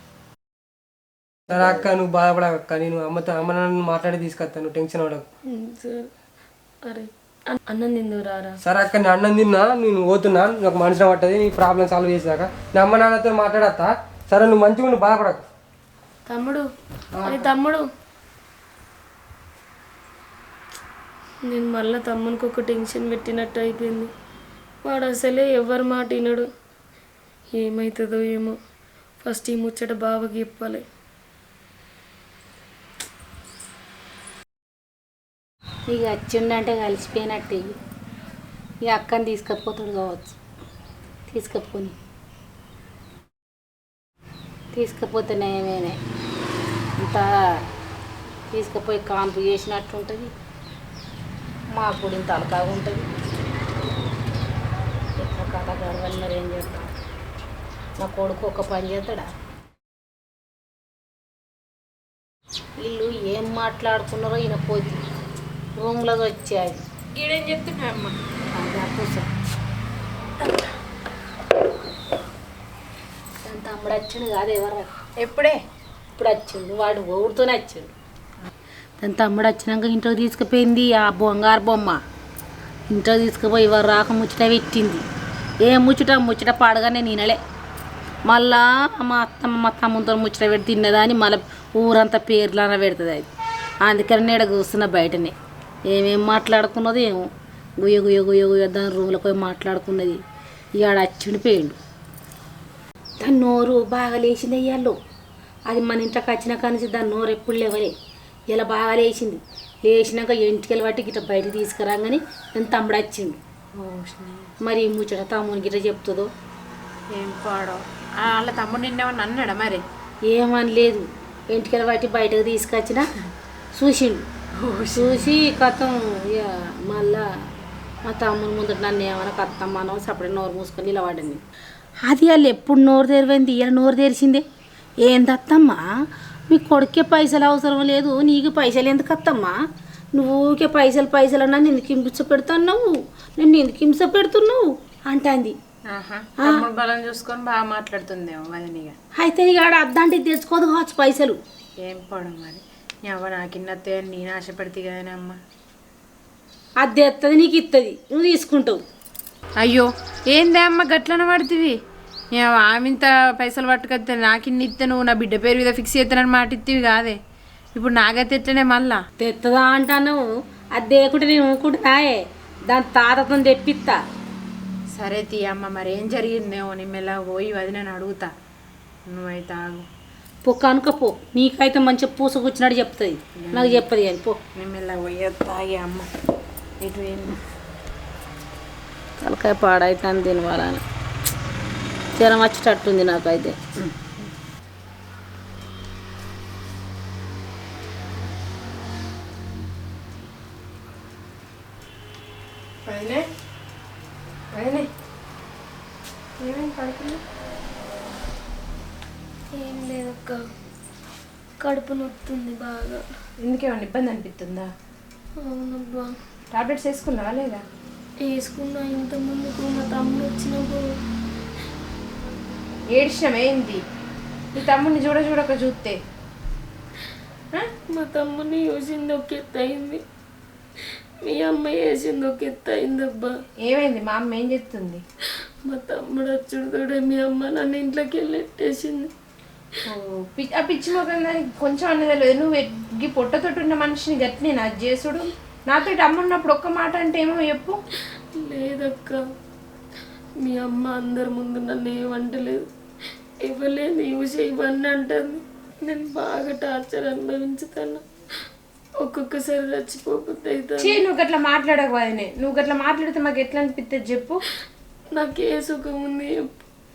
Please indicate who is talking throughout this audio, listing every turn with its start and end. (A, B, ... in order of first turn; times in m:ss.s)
0:01.5-0:05.2 A
0:05.5-0:06.1 B
0:06.8-0:08.6 B
0:08.6-0:15.4 A
0:16.3-0:16.7 B
0:17.2-0:17.5 A
0:17.2-0:17.9 B
0:21.4-0:24.1 B
0:24.8-0:26.5 B
0:27.5-0:28.6 B
0:29.2-0:30.8 B
0:35.9-0:37.8 C
0:38.8-0:40.4 C
0:41.3-0:41.9 C
0:44.7-0:46.0 C
0:47.0-0:47.6 C
0:48.5-0:50.3 C
0:51.7-0:53.1 C
0:55.2-0:56.9 C
0:58.0-0:59.3 C
1:02.8-1:05.0 C
1:05.8-1:06.8 C
1:07.1-1:08.2 D
1:08.5-1:09.3 C
1:13.4-1:14.9 C
1:15.2-1:15.6 D
1:16.1-1:17.9 C
1:19.0-1:22.0 C
1:22.9-1:25.0 C
1:25.6-1:27.4 C
1:28.2-1:33.3 C
1:33.8-1:35.3 C
1:35.9-1:40.2 C
1:40.7-1:41.8 C
1:43.2-1:45.0 C
1:45.7-1:47.9 C
1:48.5-1:53.4 C
1:53.7-1:54.5 D
1:54.6-1:56.3 C
1:57.1-1:59.8 D
2:00.3-2:03.1 C
2:03.7-2:04.3 C
2:04.6-2:05.3 D
2:04.9-2:07.5 C
2:08.0-2:11.4 C
2:12.0-2:14.4 C
2:15.0-2:15.8 C
2:16.5-2:19.6 C
2:20.1-2:25.6 C
2:25.9-2:29.0 D
2:26.4-2:26.6 C
2:29.2-2:31.4 C
2:31.8-2:35.4 D
2:36.8-2:38.8 C
2:39.6-2:41.8 D
2:42.3-2:47.2 D
2:47.7-2:49.0 D
2:49.2-2:54.0 C
2:55.0-2:58.3 D
2:59.1-2:59.9 D
3:00.4-3:04.4 C
3:03.4-3:03.8 D
3:04.6-3:06.1 D
3:06.8-3:07.4 D
3:09.2-3:10.8 C
3:12.2-3:13.9 C
3:22.8-3:23.2 D
3:24.5-3:24.8 D
3:26.4-3:27.2 D
3:29.5-3:30.4 B
3:31.6-3:33.0 B
3:33.4-3:34.7 D
3:35.4-3:36.1 B
3:36.5-3:37.6 D
3:38.2-3:40.9 B
3:42.9-3:43.8 D
3:44.5-3:46.0 D
3:47.8-3:50.0 B
3:50.8-3:53.4 B
3:53.6-3:55.0 D
3:55.6-3:59.1 B
3:59.9-4:07.8 D
4:08.3-4:09.2 B
4:10.4-4:12.6 B
4:13.4-4:18.0 B
4:19.0-4:21.0 B
4:20.8-4:24.4 D
4:25.1-4:26.5 B